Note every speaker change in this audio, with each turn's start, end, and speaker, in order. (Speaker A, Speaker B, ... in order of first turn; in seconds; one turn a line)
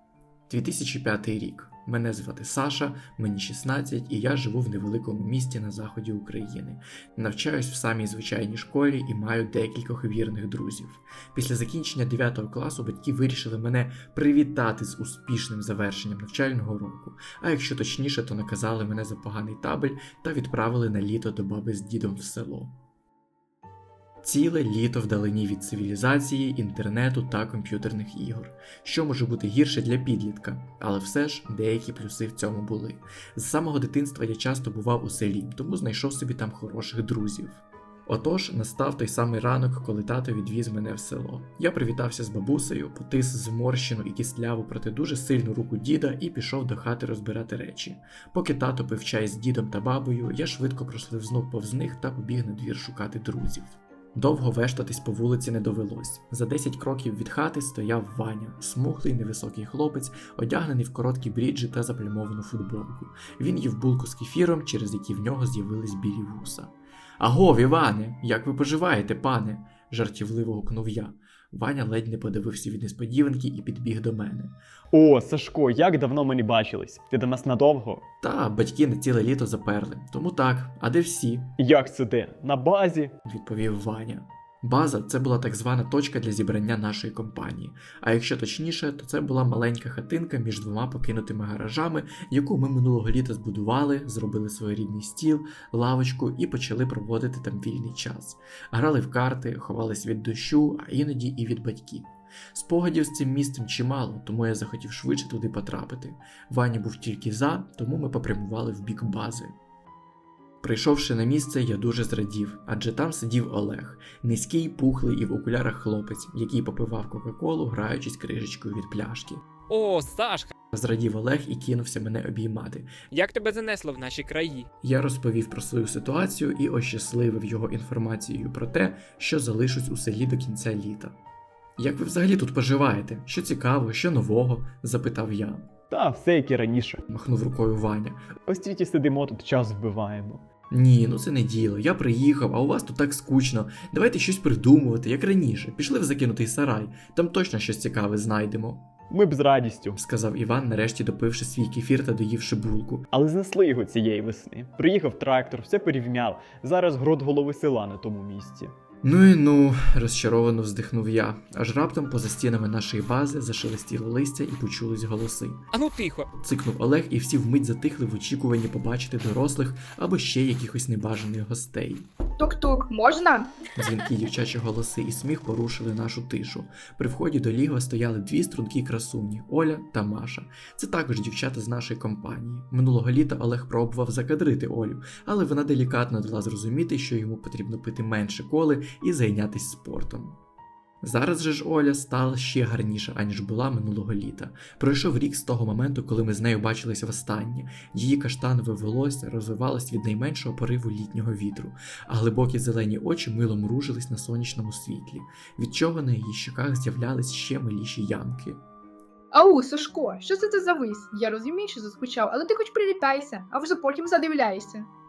Speaker A: 0.5-22.7
Speaker A: 24.2-74.5
Speaker B: 74.9-78.0
Speaker A: 78.2-81.5
Speaker B: 81.6-83.2
Speaker A: 83.2-109.5
Speaker A: 110.6-119.4
Speaker C: 119.7-120.5
Speaker A: 120.7-123.0
Speaker C: 123.1-124.7
Speaker A: 124.8-131.2
Speaker A: 131.8-135.7
Speaker B: 135.9-137.0
Speaker A: 137.1-138.2
Speaker B: 138.5-140.4
Speaker A: 140.7-148.9
Speaker B: 149.1-150.0
Speaker A: 150.0-153.1
Speaker B: 153.1-158.7
Speaker A: 159.0-165.7
Speaker C: 165.7-166.3
Speaker A: 166.4-172.1
Speaker D: 172.4-173.5
Speaker A: 173.8-190.4
Speaker A: 191.0-208.6
Speaker D: 209.3-214.9